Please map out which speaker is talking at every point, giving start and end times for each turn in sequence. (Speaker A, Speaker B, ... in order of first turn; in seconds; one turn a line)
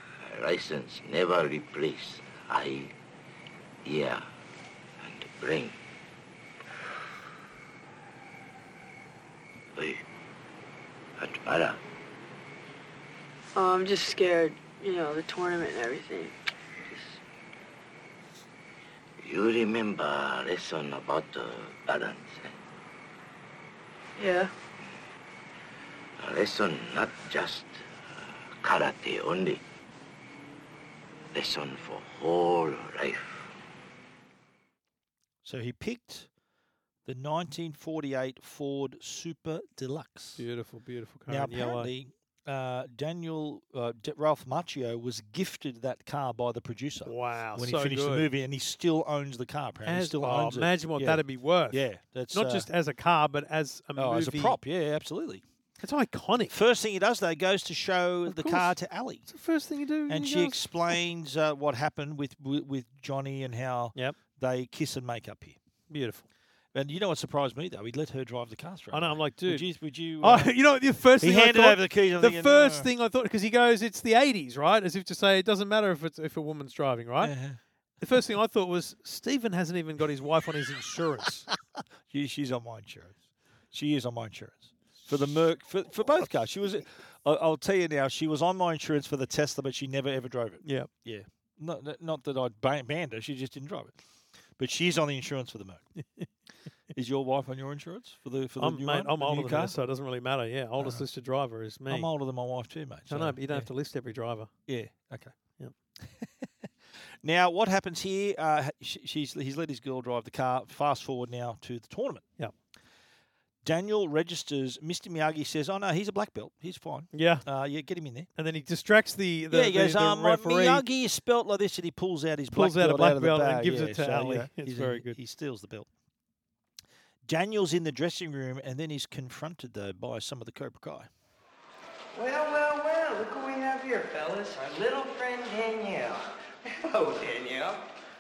Speaker A: 0.2-2.9
Speaker A: 3.8-4.2
Speaker A: 5.0-5.8
Speaker A: 9.7-10.0
Speaker A: 11.2-11.8
Speaker B: 13.5-16.3
Speaker A: 19.2-22.6
Speaker B: 24.2-24.5
Speaker A: 26.2-29.6
Speaker A: 31.3-33.5
Speaker C: 35.4-36.3
Speaker C: 37.0-40.4
Speaker D: 40.4-41.9
Speaker C: 41.3-52.7
Speaker D: 47.0-48.3
Speaker D: 49.9-54.6
Speaker C: 54.0-55.4
Speaker D: 55.8-56.5
Speaker C: 56.5-59.3
Speaker D: 58.3-58.7
Speaker D: 59.3-60.6
Speaker C: 60.1-65.6
Speaker D: 65.9-66.3
Speaker C: 66.7-70.5
Speaker D: 68.9-69.7
Speaker D: 70.2-77.3
Speaker C: 71.2-72.9
Speaker C: 77.2-77.6
Speaker D: 78.0-81.5
Speaker C: 82.1-83.2
Speaker C: 83.7-94.0
Speaker D: 90.6-90.9
Speaker C: 94.6-95.9
Speaker C: 96.9-99.8
Speaker D: 98.6-102.1
Speaker C: 100.8-101.0
Speaker C: 101.9-103.7
Speaker D: 103.1-104.5
Speaker C: 104.7-105.3
Speaker C: 107.2-112.2
Speaker C: 113.6-118.3
Speaker D: 117.1-117.4
Speaker D: 118.4-120.8
Speaker C: 119.5-125.9
Speaker D: 122.5-125.2
Speaker C: 127.2-131.1
Speaker E: 132.1-137.8